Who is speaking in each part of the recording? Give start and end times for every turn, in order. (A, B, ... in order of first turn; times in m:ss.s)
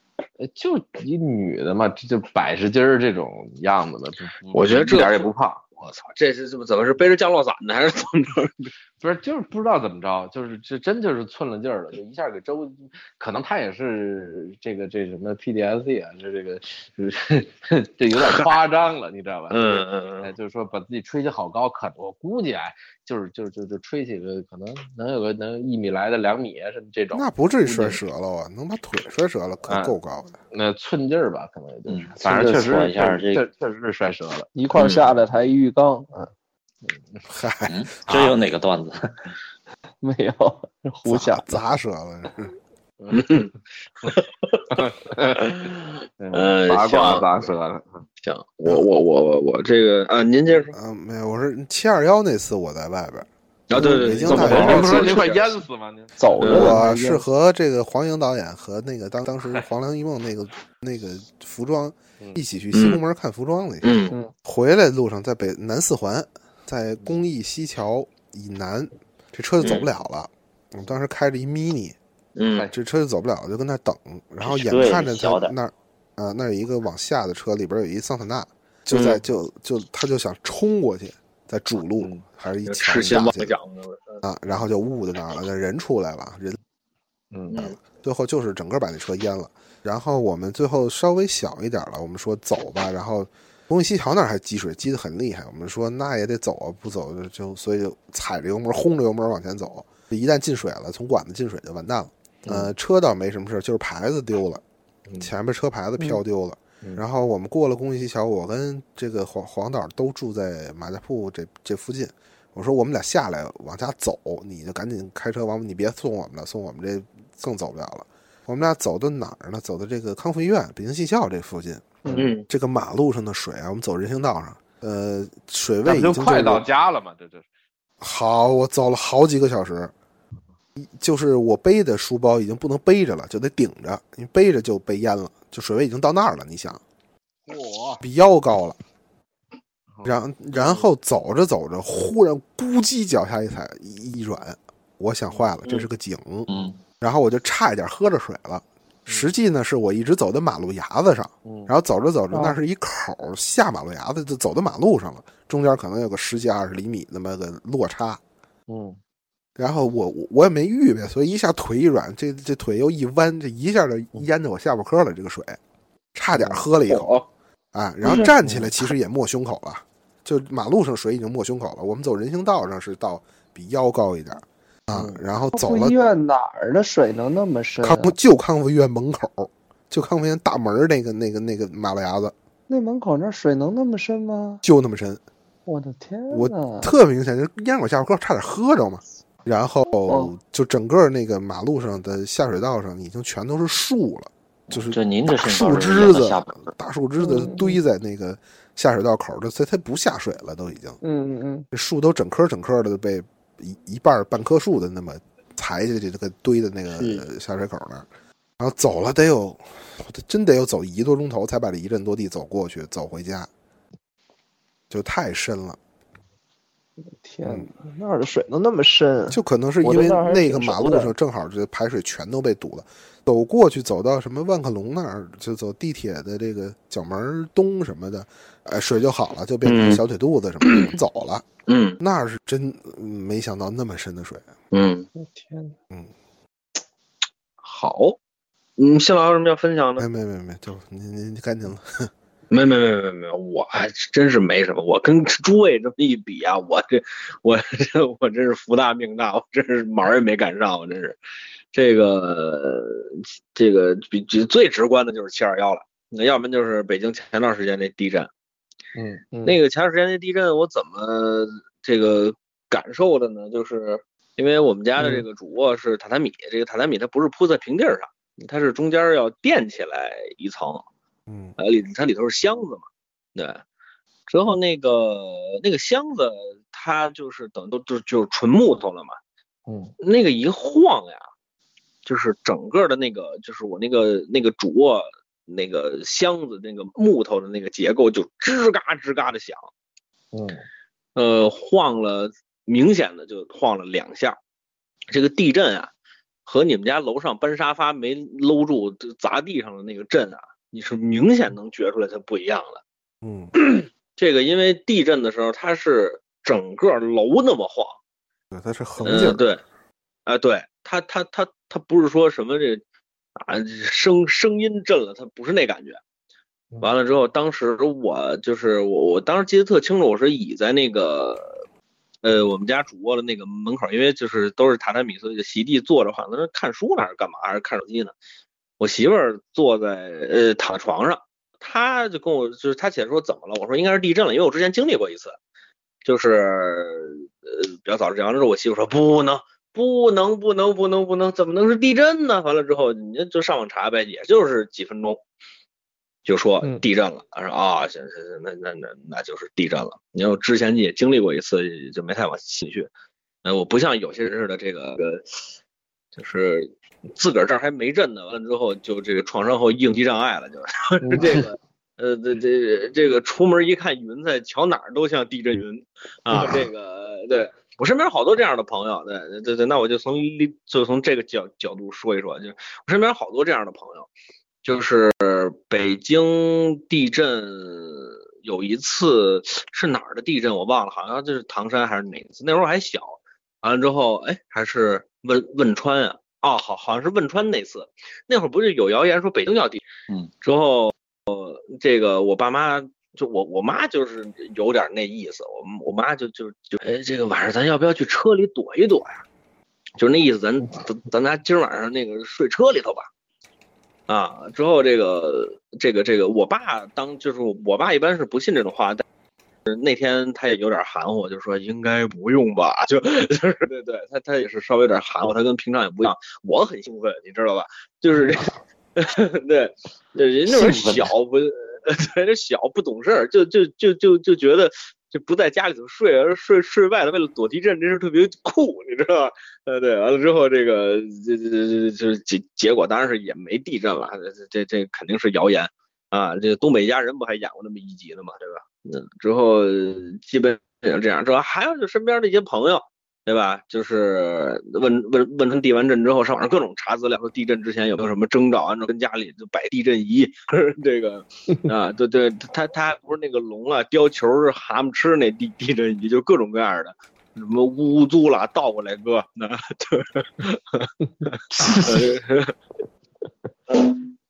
0:00.4-0:05.6 A
0:04.5-0:05.3 B
0:05.8-0:08.7 B
0:09.0-0:28.0 A
0:18.2-0:18.5 B
0:19.5-0:20.3 B
0:27.1-0:30.4 C
0:29.7-0:29.9 A
0:30.5-0:34.5 A
0:31.9-0:33.4 D
0:34.5-0:36.3 E
0:34.7-0:35.0 B
0:36.9-0:37.2 A
0:37.3-0:38.4 C
0:37.6-0:39.2 D
0:40.0-0:41.5 E
0:41.0-0:42.5 C
0:43.0-0:43.3 A
0:43.1-0:44.8 B
0:44.7-0:48.0 A
0:45.4-0:45.7 B
0:46.3-0:47.3 B
0:48.2-0:50.7 B
0:50.7-0:53.3 C
0:53.7-0:55.5 B
0:53.8-0:54.0 E
0:53.9-0:55.2 C
0:54.2-0:56.7 A
0:56.2-0:57.2 E
0:56.4-0:56.8 B
0:56.5-1:12.0 C
1:02.7-1:03.0 B
1:03.8-1:04.1 B
1:09.6-1:09.9 B
1:12.4-1:12.7 B
1:12.7-1:23.5 C
1:14.4-1:15.5 D
1:18.9-1:19.2 B
1:22.6-1:24.2 B
1:24.2-1:26.6 C
1:27.3-1:27.6 A
1:27.5-1:27.8 B
1:27.6-1:44.6 C
1:42.4-1:42.7 A
1:45.2-2:06.7 C
2:02.0-2:02.3 E
2:02.1-2:02.4 B
2:05.8-2:07.5 A
2:08.0-2:09.9 C
2:10.8-2:16.8 C
2:17.5-2:18.0 A
2:18.0-2:18.8 C
2:19.9-2:20.9 A
2:20.0-2:26.5 C
2:26.5-2:26.8 D
2:27.0-2:38.2 C
2:31.4-2:31.7 A
2:32.3-2:32.6 E
2:38.7-2:39.0 A
2:39.6-2:45.6 C
2:46.1-2:47.2 C
2:46.4-2:46.6 A
2:46.9-2:47.2 B
2:47.7-2:56.0 C
2:48.4-2:48.7 A
2:54.9-2:55.2 A
2:55.5-2:58.1 E
2:57.8-3:02.3 C
3:02.7-3:04.6 E
3:04.6-3:05.2 C
3:05.6-3:06.9 E
3:06.3-3:21.0 C
3:10.1-3:10.3 E
3:14.7-3:16.7 D
3:17.2-3:17.8 E
3:21.0-3:21.6 E
3:21.7-3:28.1 C
3:27.0-3:27.2 E
3:28.6-3:33.5 C
3:34.9-3:35.8 C
3:37.2-3:41.1 E
3:39.3-3:51.4 C
3:49.6-3:50.0 B
3:50.6-3:50.9 B
3:51.7-3:52.0 B
3:52.0-3:54.5 C
3:54.7-3:55.1 B
3:55.2-3:55.7 E
3:57.6-3:58.2 B
3:58.8-4:00.0 B
4:00.0-4:02.1 C
4:02.5-4:11.2 B
4:11.7-4:18.3 B
4:19.0-4:19.3 A
4:19.4-4:30.8 B
4:31.3-4:31.5 C
4:31.6-4:33.6 B
4:34.3-4:39.2 B
4:39.7-4:39.9 A
4:40.0-4:41.2 B
4:42.0-4:49.7 B
4:50.3-4:50.6 A
4:51.2-4:54.4 B
4:55.1-4:55.9 B
4:56.4-5:02.8 B
5:03.2-5:03.5 C
5:03.6-5:08.0 B
5:08.5-5:09.4 C
5:09.0-5:09.6 B
5:10.2-5:12.8 B
5:13.4-5:16.0 B
5:16.8-5:21.6 B
5:22.2-5:28.1 B
5:28.8-5:35.4 B
5:36.0-5:45.2 B
5:46.2-5:52.9 B
5:53.4-5:55.4 B
5:56.2-6:14.1 B
6:01.0-6:01.5 A
6:14.6-6:29.8 B
6:30.4-6:39.2 B
6:40.0-6:43.1 B
6:44.1-6:49.0 B
6:49.6-7:42.5 B
7:00.5-7:01.1 D
7:41.5-7:42.2 A
7:43.7-7:44.1 B